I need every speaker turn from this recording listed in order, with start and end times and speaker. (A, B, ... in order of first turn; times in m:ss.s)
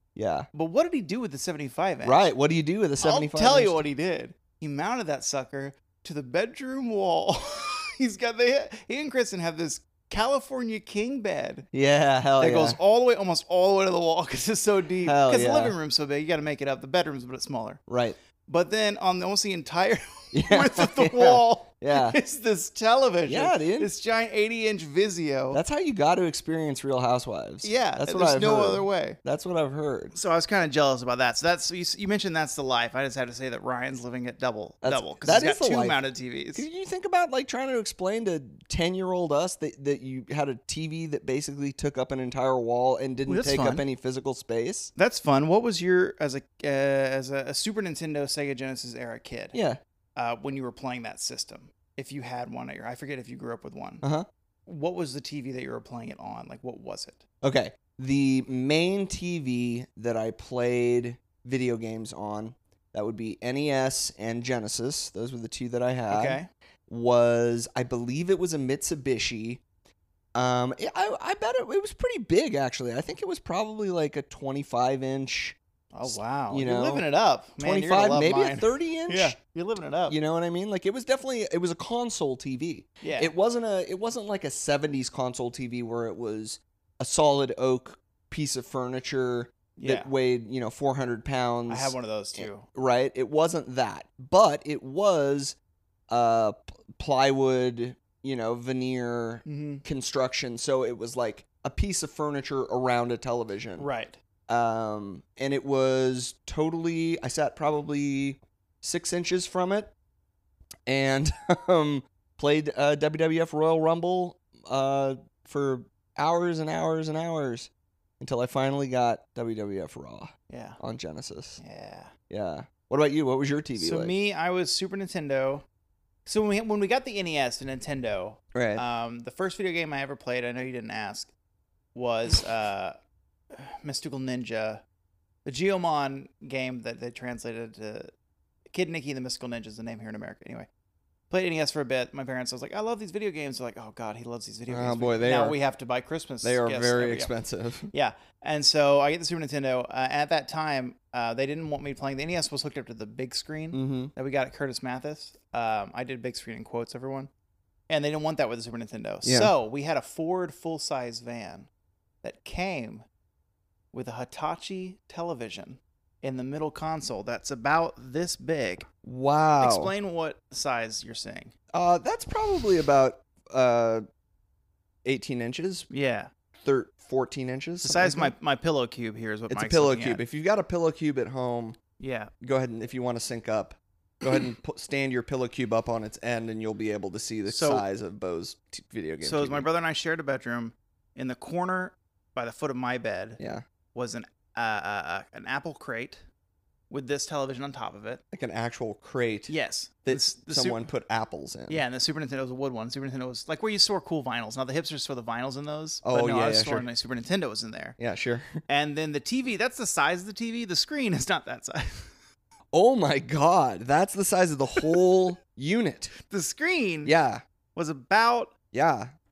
0:00.2-0:00.5 A
0:00.5-0:02.3 B
0:02.0-0:03.8 A
0:03.0-0:11.7 B
0:11.7-0:12.8 A
0:12.4-0:17.8 B
0:15.0-0:15.8 A
0:17.9-0:18.2 A
0:18.5-0:25.6 B
0:20.3-0:22.2 A
0:23.3-0:23.9 A
0:25.5-0:30.1 A
0:27.6-0:29.2 B
0:30.1-0:36.6 B
0:34.8-0:36.0 A
0:36.5-0:44.9 A
0:43.2-0:43.8 B
0:45.0-0:49.6 B
0:49.5-0:49.8 A
0:50.2-0:54.0 B
0:54.0-0:54.3 A
0:54.7-0:57.2 B
0:57.4-1:09.6 A
1:06.1-1:06.5 B
1:10.4-1:17.0 A
1:15.9-1:20.2 B
1:17.6-1:19.4 A
1:20.1-1:35.6 A
1:23.0-1:23.3 B
1:29.8-1:30.1 B
1:31.7-1:32.6 B
1:36.1-1:43.9 A
1:39.4-1:39.8 B
1:43.8-1:44.2 B
1:44.5-1:49.9 A
1:50.9-2:01.6 A
2:00.5-2:00.8 B
2:01.6-2:02.1 B
2:02.3-2:04.1 A
2:03.8-2:05.6 B
2:06.2-2:11.3 B
2:08.5-2:08.8 A
2:11.9-2:13.0 B
2:13.5-2:14.8 B
2:15.4-2:18.1 B
2:18.7-2:20.7 B
2:21.3-2:27.3 B
2:24.7-2:25.6 A
2:26.4-2:27.9 A
2:27.9-2:37.3 B
2:33.7-2:34.1 A
2:37.9-2:41.7 B
2:39.2-2:39.5 A
2:42.2-2:43.1 B
2:43.9-2:48.9 B
2:49.0-2:49.9 A
2:49.6-2:51.5 B
2:51.7-2:54.0 A
2:55.0-2:55.9 A
2:55.9-2:56.3 B
2:56.6-2:58.3 A
2:57.8-3:00.2 B
2:59.5-3:01.8 A
3:02.0-3:02.3 B
3:02.4-3:09.7 A
3:07.5-3:07.8 B
3:09.2-3:13.4 B
3:13.4-3:13.6 A
3:13.9-3:16.2 B
3:16.9-3:18.2 B
3:18.3-3:19.5 A
3:19.5-3:20.9 B
3:20.1-3:21.8 A
3:21.7-3:28.0 B
3:26.0-3:26.9 A
3:28.0-3:28.6 A
3:28.7-3:32.1 B
3:32.7-3:36.1 A
3:36.2-3:37.1 B
3:37.0-3:37.4 A
3:37.8-3:38.5 B
3:38.7-3:39.1 A